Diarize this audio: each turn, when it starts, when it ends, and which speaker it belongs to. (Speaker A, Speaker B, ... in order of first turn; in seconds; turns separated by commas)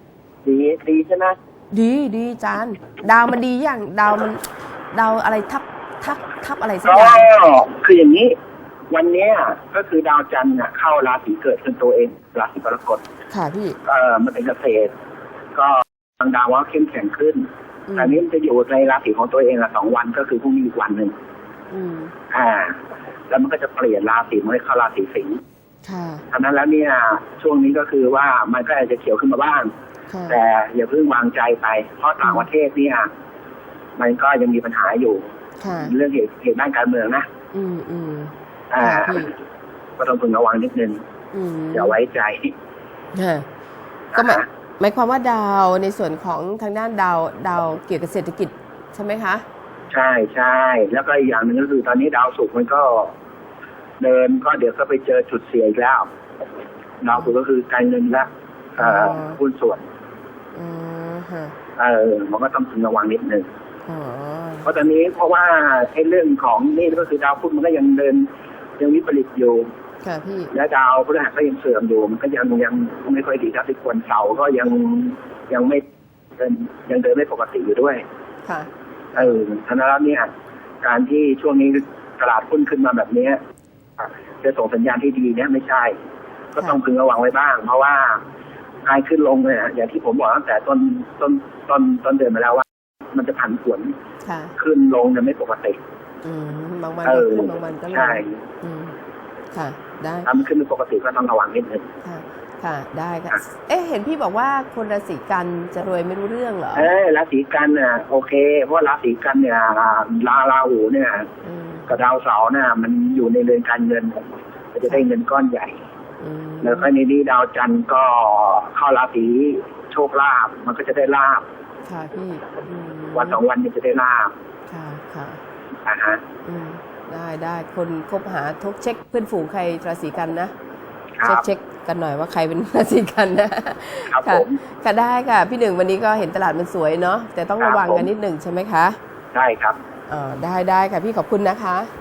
Speaker A: 0.4-1.4, Speaker B: 1.7-7.3, Speaker A: 6.8-8.3, Speaker A: 8.9-13.0, Speaker B: 13.3-13.8, Speaker A: 13.8-14.9, Speaker A: 15.6-21.1, Speaker B: 17.9-18.1, Speaker B: 21.7-22.1, Speaker A: 22.3-22.8, Speaker A: 23.3-25.4, Speaker B: 25.8-26.2, Speaker A: 26.3-29.7, Speaker B: 30.1-30.4, Speaker A: 30.3-33.1, Speaker A: 34.0-37.3, Speaker B: 35.6-35.9, Speaker B: 37.5-39.3, Speaker A: 38.7-39.3, Speaker A: 40.0-41.0, Speaker B: 41.3-42.0, Speaker A: 41.7-42.5, Speaker B: 43.1-43.4, Speaker A: 44.1-44.4, Speaker B: 44.1-49.4, Speaker A: 49.9-53.1, Speaker A: 54.0-56.1, Speaker A: 57.0-59.8, Speaker B: 58.8-59.4, Speaker B: 60.5-61.5, Speaker A: 61.8-63.5, Speaker B: 63.9-64.7, Speaker A: 64.6-68.3, Speaker A: 68.8-69.7, Speaker B: 70.0-70.5, Speaker A: 70.5-75.8, Speaker A: 76.4-78.0, Speaker B: 78.4-79.3, Speaker A: 79.2-80.3, Speaker A: 80.8-83.4, Speaker A: 84.0-85.9, Speaker A: 86.6-88.2, Speaker A: 88.8-93.9, Speaker B: 94.2-94.5, Speaker A: 94.6-95.8, Speaker B: 96.2-98.9, Speaker A: 97.0-98.4, Speaker B: 99.5-100.3, Speaker A: 100.2-101.9, Speaker B: 102.0-106.9, Speaker A: 106.7-111.3, Speaker B: 111.4-111.9, Speaker A: 111.9-115.8, Speaker B: 116.2-116.9, Speaker A: 116.6-121.4, Speaker B: 121.8-123.4, Speaker A: 123.1-124.3, Speaker B: 124.7-125.4, Speaker A: 125.9-126.2, Speaker B: 126.4-130.5, Speaker A: 131.2-131.4, Speaker B: 131.2-139.0, Speaker A: 134.1-134.6, Speaker A: 137.6-138.1, Speaker A: 139.3-139.8, Speaker B: 140.1-141.9